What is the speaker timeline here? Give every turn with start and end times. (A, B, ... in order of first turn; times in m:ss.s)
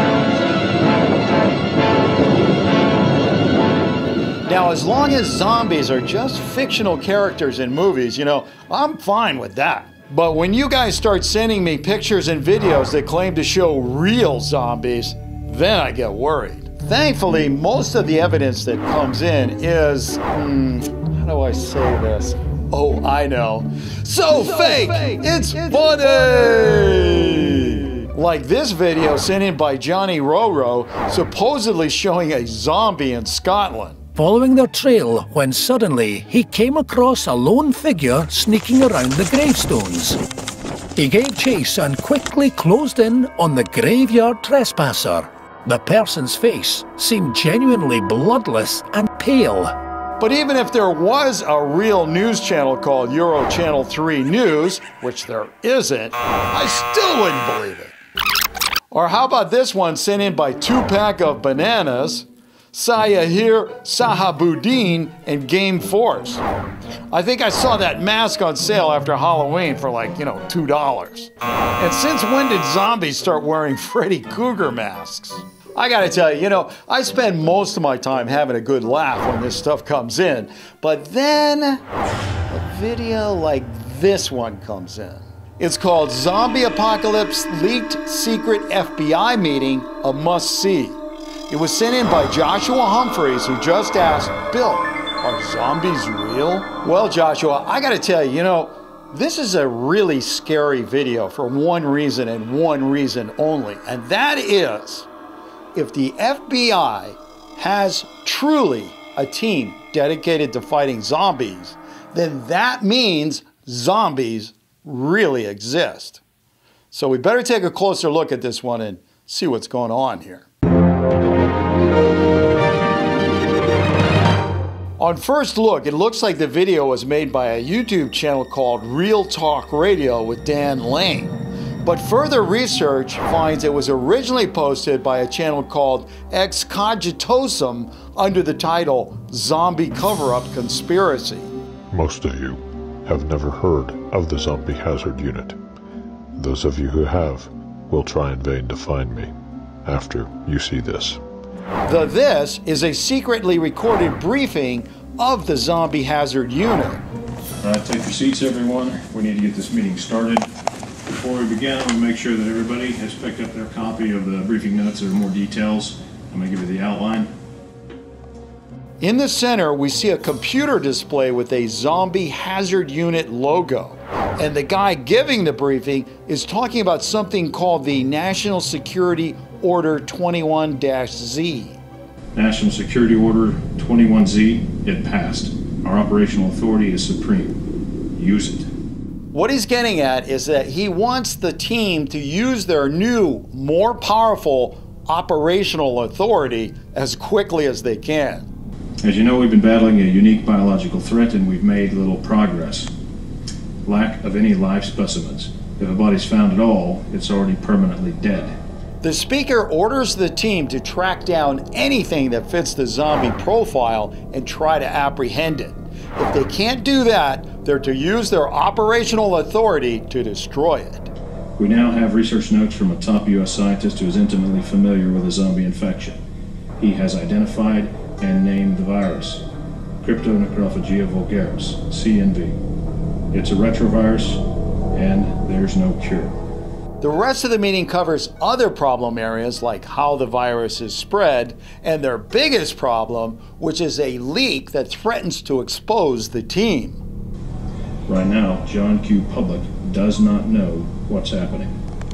0:04.4-0:34.0 A
0:34.2-0:40.2 B
0:41.0-0:49.7 B
0:50.2-0:57.9 A
0:58.9-1:06.4 A
1:07.1-1:21.8 A
1:22.5-1:45.1 A
1:45.7-1:56.2 A
1:56.9-2:00.5 A
2:05.0-2:21.5 A
2:22.0-2:23.5 C
2:24.2-2:25.5 C
2:27.0-2:27.4 C
2:28.4-2:29.0 C
2:29.9-2:31.2 D
2:31.9-2:37.0 A
2:37.6-2:40.5 D
2:41.1-2:47.3 D
2:49.0-3:01.8 A
3:02.4-3:07.6 D
3:08.2-3:08.7 D
3:09.3-3:18.5 A
3:19.0-3:22.9 D
3:23.8-3:28.6 D
3:29.0-3:41.1 A
3:41.6-3:46.2 D
3:46.8-3:49.5 D
3:50.0-3:52.6 D
3:53.3-3:56.4 D
3:57.0-4:07.0 A
4:08.1-4:11.7 D